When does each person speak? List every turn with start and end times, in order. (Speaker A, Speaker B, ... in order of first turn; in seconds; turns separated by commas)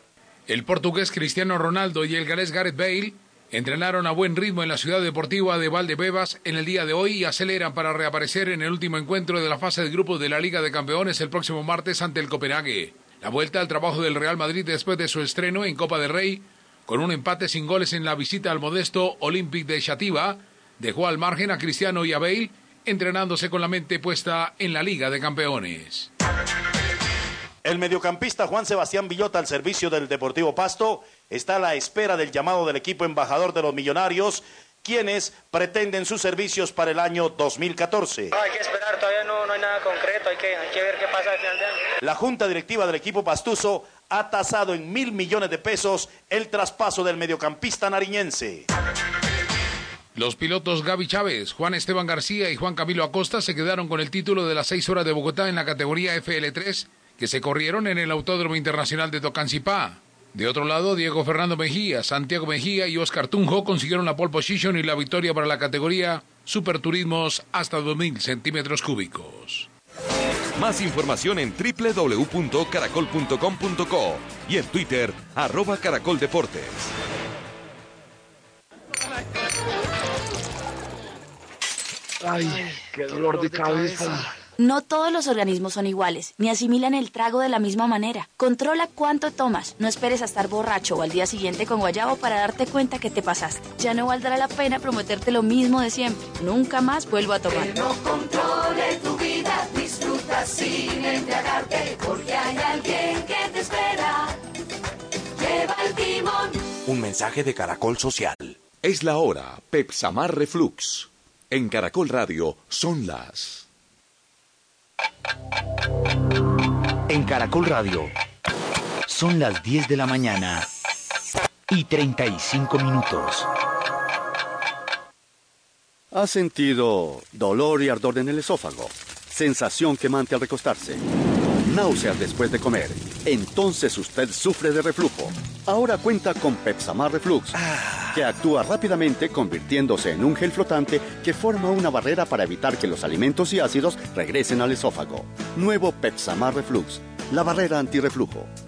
Speaker A: 0.5-26.1, Speaker B: 27.6-38.3, Speaker C: 38.4-41.6, Speaker B: 42.0-48.6, Speaker A: 50.1-69.7, Speaker D: 70.5-76.9, Speaker E: 82.2-84.3, Speaker F: 84.6-97.7, Speaker G: 97.5-104.4, Speaker G: 105.4-106.6, Speaker H: 106.8-108.5, Speaker D: 108.8-113.7, Speaker H: 117.1-118.1, Speaker H: 119.1-120.7, Speaker H: 121.7-123.5, Speaker I: 126.1-131.0, Speaker I: 131.6-137.6, Speaker I: 138.1-148.5